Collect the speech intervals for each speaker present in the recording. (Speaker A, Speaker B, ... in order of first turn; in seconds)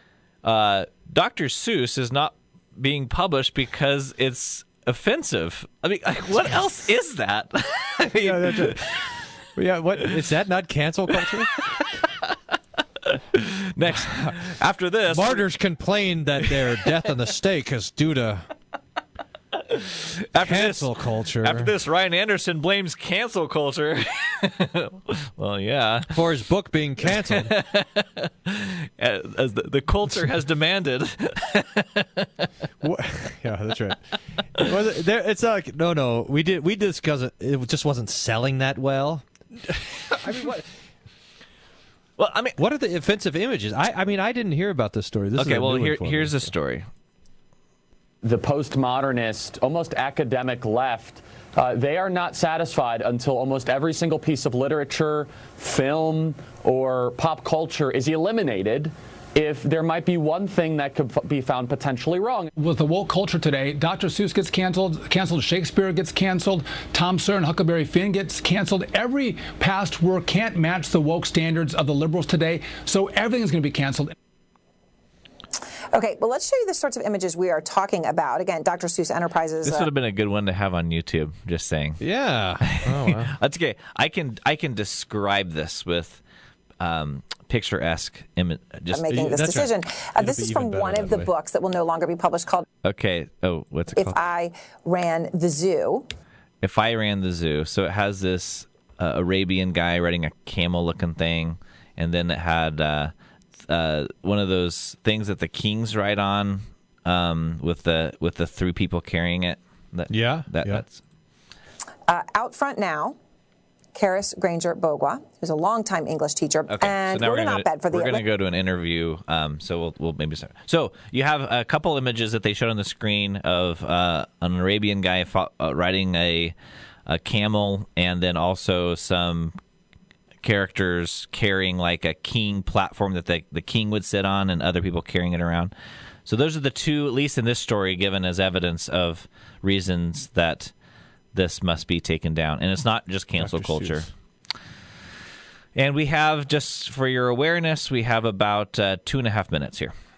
Speaker A: 0.4-9.0, 11.3-15.4, 16.4-16.8, 19.5-26.1, 27.0-32.5, 42.2-42.6, 45.4-46.9, 79.6-82.0, 82.7-86.2, 86.8-89.5, 92.8-94.2, 96.6-103.1, 103.7-111.0, 116.7-126.5, 127.0-129.6, 130.4-135.7, 136.2-140.7, 141.3-144.1, 145.7-149.9
Speaker B: 8.1-11.6, 13.8-14.4, 15.1-18.5, 20.4-21.7, 26.1-27.5, 32.8-40.7, 42.6-46.5, 82.0-83.3, 89.3-91.3, 110.1-110.8, 143.3-144.1
Speaker C: 48.2-62.5
Speaker D: 62.5-74.1
Speaker E: 75.9-79.9, 88.9-92.7, 93.9-96.1, 112.1-113.2, 113.9-118.2